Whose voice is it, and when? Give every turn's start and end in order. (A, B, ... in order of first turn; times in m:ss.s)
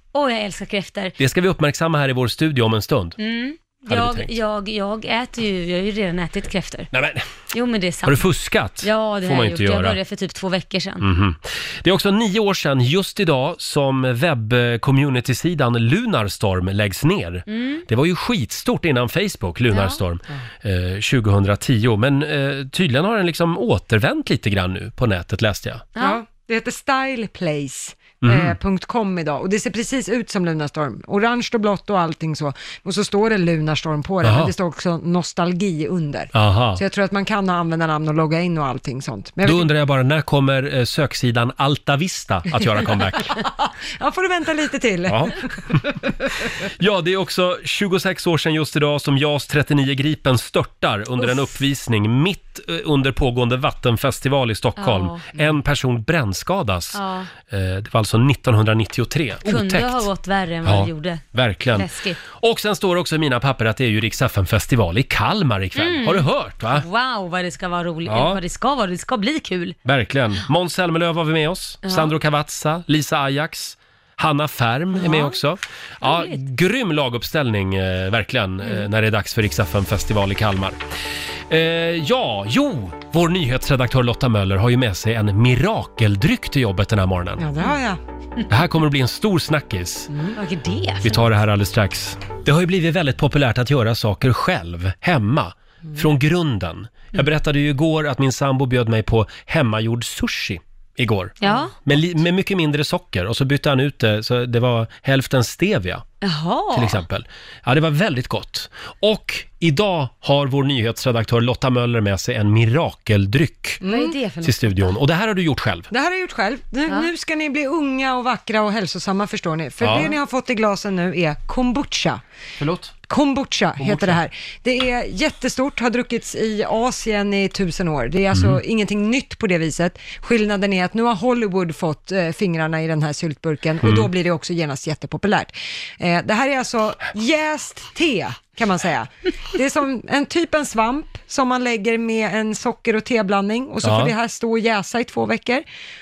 0:00.1-0:01.1 A
0:01.2-0:03.2 B
0:03.2-0:06.9 A
0:03.9-0:04.3 B
0:06.9-0:07.2 B
0:07.5-0:08.3 A
0:08.0-0:10.0 B
0:08.8-0:11.0 A
0:11.0-0:25.8 B
0:17.5-0:17.8 A
0:19.7-0:20.0 A
0:25.9-0:26.2 A
0:26.0-0:39.7 C
0:28.2-0:28.6 B
0:34.2-0:34.5 B
0:36.3-0:36.8 B
0:39.4-0:43.4 B
0:43.4-0:45.4 C
0:45.1-0:45.4 B
0:46.6-1:00.0 B
0:54.8-0:55.2 A
0:56.9-0:57.3 A
0:59.4-1:01.2 A
1:00.6-1:06.8 B
1:01.7-1:02.2 A
1:05.8-1:09.8 A
1:08.1-1:08.4 B
1:09.8-1:20.8 B
1:11.8-1:12.1 A
1:15.0-1:15.4 A
1:16.0-1:16.4 A
1:21.5-1:27.4 B
1:27.4-1:28.0 C
1:28.5-1:30.1 B
1:30.1-1:30.4 C
1:30.4-1:31.2 A
1:31.0-1:46.0 B
1:41.4-1:41.7 A
1:46.2-1:47.0 A
1:46.7-1:53.8 B
1:53.8-1:54.2 C
1:53.8-1:54.9 A
1:54.4-1:55.9 B
1:55.9-2:02.2 C
1:59.8-2:00.1 B
2:02.6-2:02.9 B
2:03.1-2:25.6 C
2:03.8-2:04.2 B
2:08.3-2:08.6 B
2:13.8-2:14.1 B
2:23.8-2:24.1 B